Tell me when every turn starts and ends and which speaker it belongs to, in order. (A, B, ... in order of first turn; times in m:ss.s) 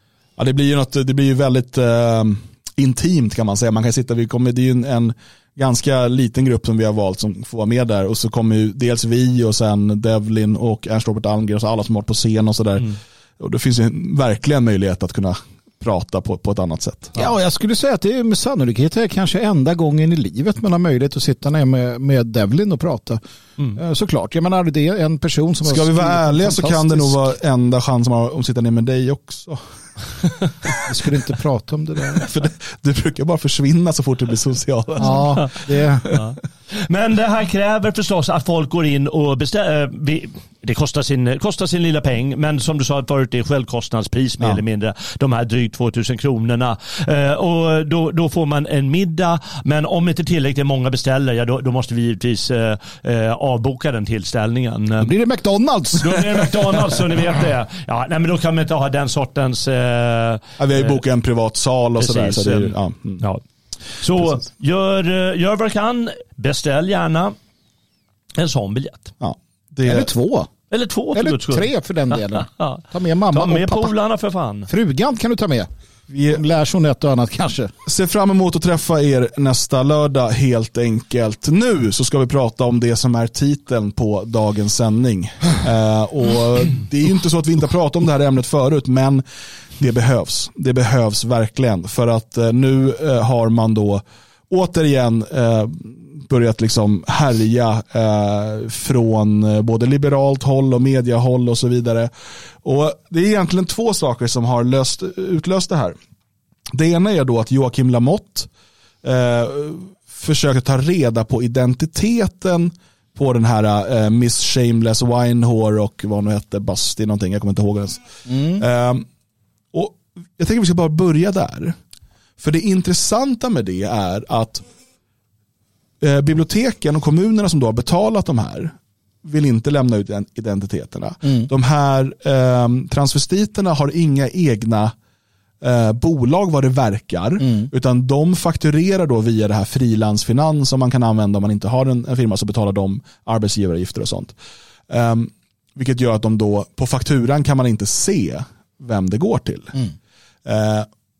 0:00.4-0:17.2 A
0:17.2-0:23.2 B
0:23.7-0:27.4 B
0:25.7-0:29.6 A
0:30.8-0:32.3 B
0:32.2-0:35.4 A
0:35.0-0:36.1 B
0:36.1-0:55.1 C
0:55.0-0:56.5 B
0:56.0-1:01.0 C
1:00.6-1:03.2 A
1:02.0-1:03.4 C
1:04.0-1:07.4 C
1:08.4-1:09.1 C
1:09.2-1:10.1 A
1:09.8-1:10.5 B
1:10.7-1:14.7 C
1:11.1-1:13.9 B
1:14.7-1:15.7 B
1:16.1-1:16.4 A
1:16.3-1:17.7 B
1:17.9-1:29.2 A
1:29.8-1:42.1 A
1:42.6-1:46.0 A
1:46.7-1:48.5 A
1:49.0-1:59.0 A
1:58.3-1:58.6 B
1:59.7-2:01.8 A
2:02.4-2:04.6 A
2:06.0-2:14.9 A
2:15.6-2:24.3 A
2:17.4-2:17.7 B
2:24.9-2:29.8 A
2:30.5-2:30.9 A